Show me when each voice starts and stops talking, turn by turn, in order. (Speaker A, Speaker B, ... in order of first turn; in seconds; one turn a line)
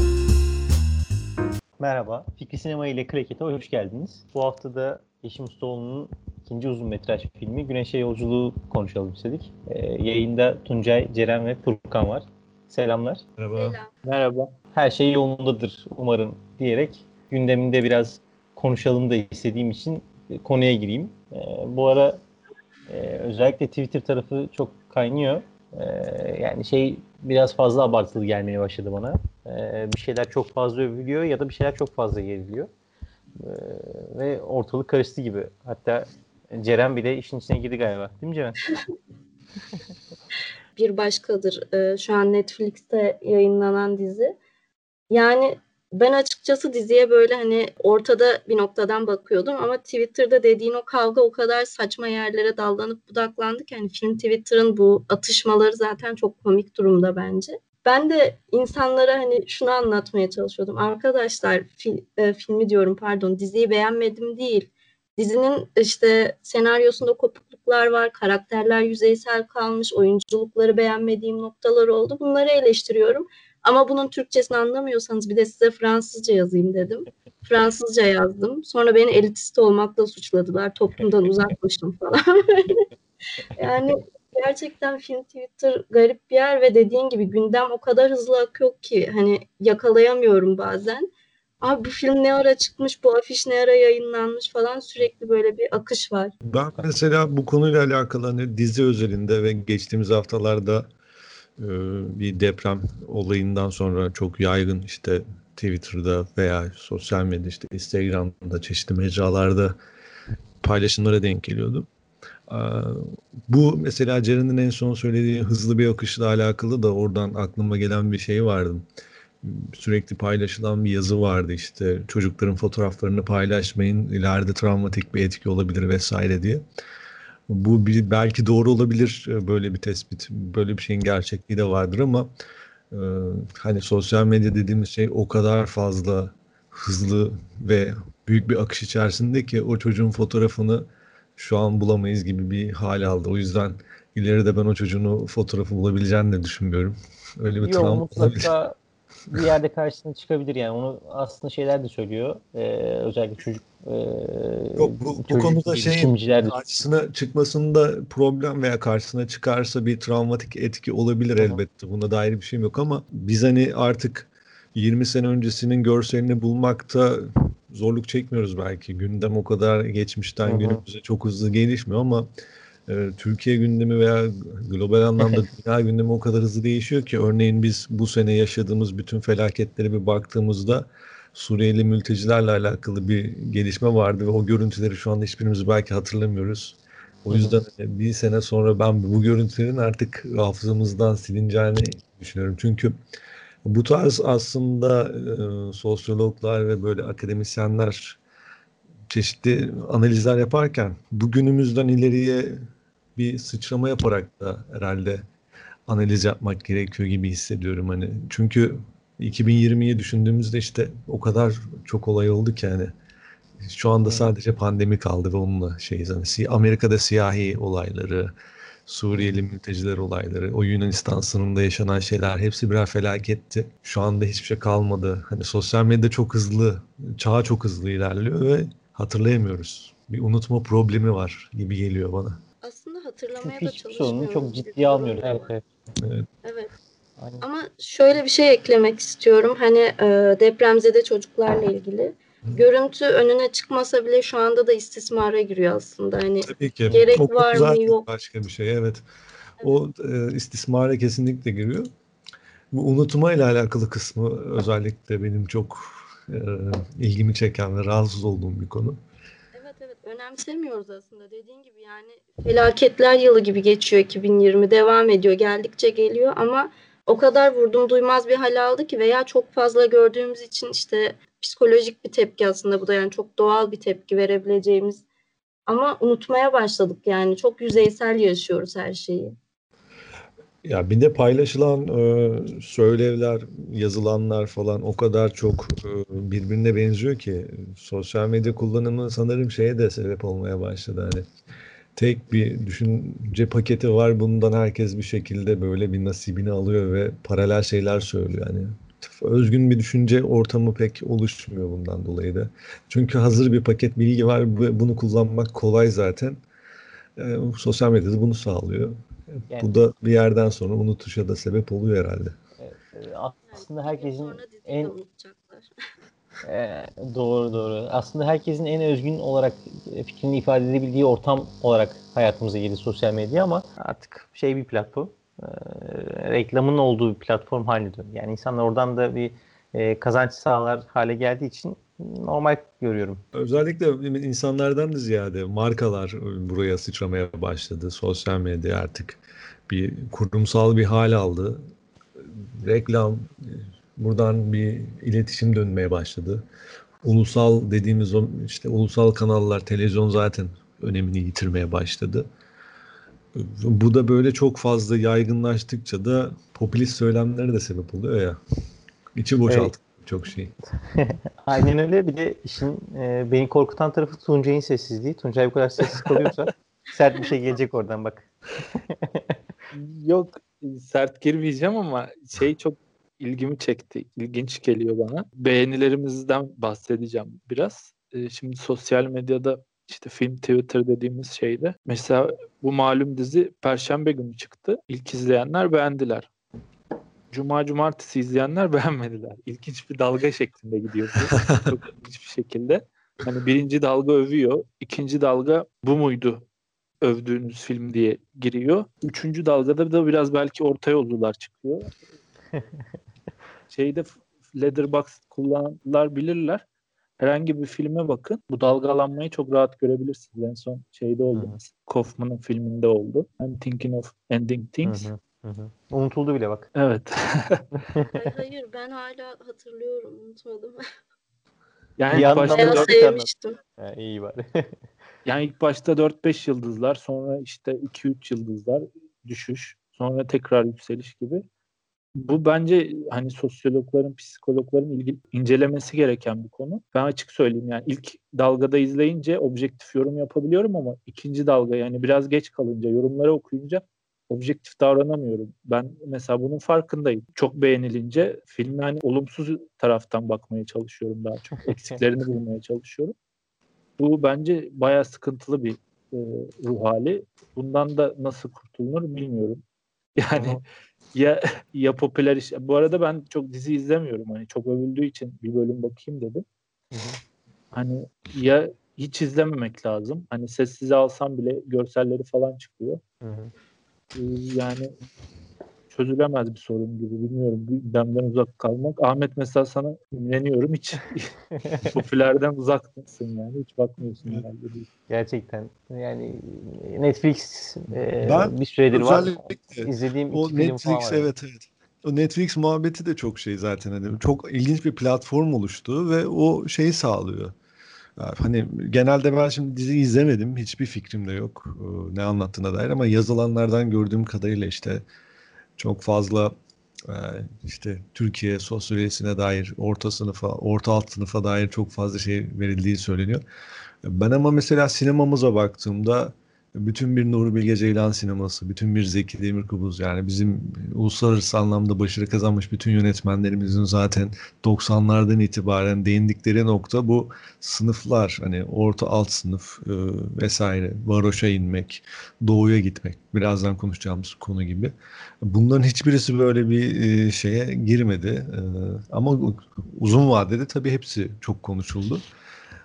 Speaker A: 1.8-13.2
Speaker B: 13.4-13.8
Speaker C: 13.6-13.9
Speaker D: 14.0-14.5
Speaker A: 14.7-22.2
Speaker A: 22.9-32.7
Speaker A: 33.4-38.6
Speaker C: 40.8-44.4
Speaker C: 45.1-82.9
Speaker C: 83.6-91.1
Speaker C: 91.6-96.3
Speaker B: 96.5-100.9
Speaker B: 101.6-109.8
Speaker B: 110.6-111.9
Speaker B: 112.5-118.8
Speaker B: 119.4-126.7
Speaker B: 127.5-132.3
Speaker B: 132.9-148.5
Speaker A: 147.6-148.8
Speaker A: 149.3-156.8
Speaker B: 154.8-172.3
Speaker A: 170.4-170.8
Speaker B: 172.9-192.9
Speaker A: 187.3-187.6
Speaker B: 193.6-198.2
Speaker B: 199.1-205.2
Speaker B: 205.9-212.9
Speaker B: 213.6-218.3
Speaker A: 214.0-214.3
Speaker B: 218.9-232.4
Speaker C: 232.6-235.5
Speaker A: 233.4-235.6
Speaker B: 236.0-236.3
Speaker C: 236.4-236.7
Speaker C: 237.4-248.0
Speaker B: 246.5-249.0
Speaker B: 249.6-251.9
Speaker B: 252.7-259.0
Speaker C: 259.5-275.0
Speaker C: 275.7-279.4
Speaker B: 280.6-291.2
Speaker B: 292.0-306.4
Speaker B: 307.2-312.4
Speaker A: 312.6-314.9
Speaker C: 313.5-315.7
Speaker A: 316.4-333.2
Speaker B: 333.3-341.6
Speaker B: 342.2-346.4
Speaker B: 347.0-352.3
Speaker B: 353.3-358.4
Speaker B: 359.2-360.5
Speaker A: 359.5-359.7
Speaker A: 360.8-369.4
Speaker D: 369.7-386.3
Speaker D: 387.3-396.4
Speaker D: 397.0-401.9
Speaker D: 403.7-406.6
Speaker D: 407.2-415.1
Speaker A: 411.3-411.6
Speaker A: 414.8-416.7
Speaker D: 416.8-417.6
Speaker A: 417.8-418.3
Speaker C: 418.1-420.8
Speaker D: 422.0-422.9
Speaker A: 422.1-424.7
Speaker C: 422.5-423.6
Speaker D: 425.2-431.4
Speaker D: 432.2-453.1
Speaker A: 451.8-452.0
Speaker D: 454.0-459.6
Speaker D: 460.2-460.6
Speaker A: 460.3-460.6
Speaker D: 461.1-466.4
Speaker A: 466.9-467.2
Speaker D: 467.7-473.0
Speaker A: 473.2-473.5
Speaker D: 474.1-474.9
Speaker D: 475.9-484.9
Speaker A: 481.6-481.9
Speaker A: 485.1-491.3
Speaker B: 488.2-497.5
Speaker B: 498.2-505.0
Speaker B: 505.8-506.5
Speaker B: 507.1-513.4
Speaker B: 514.0-542.2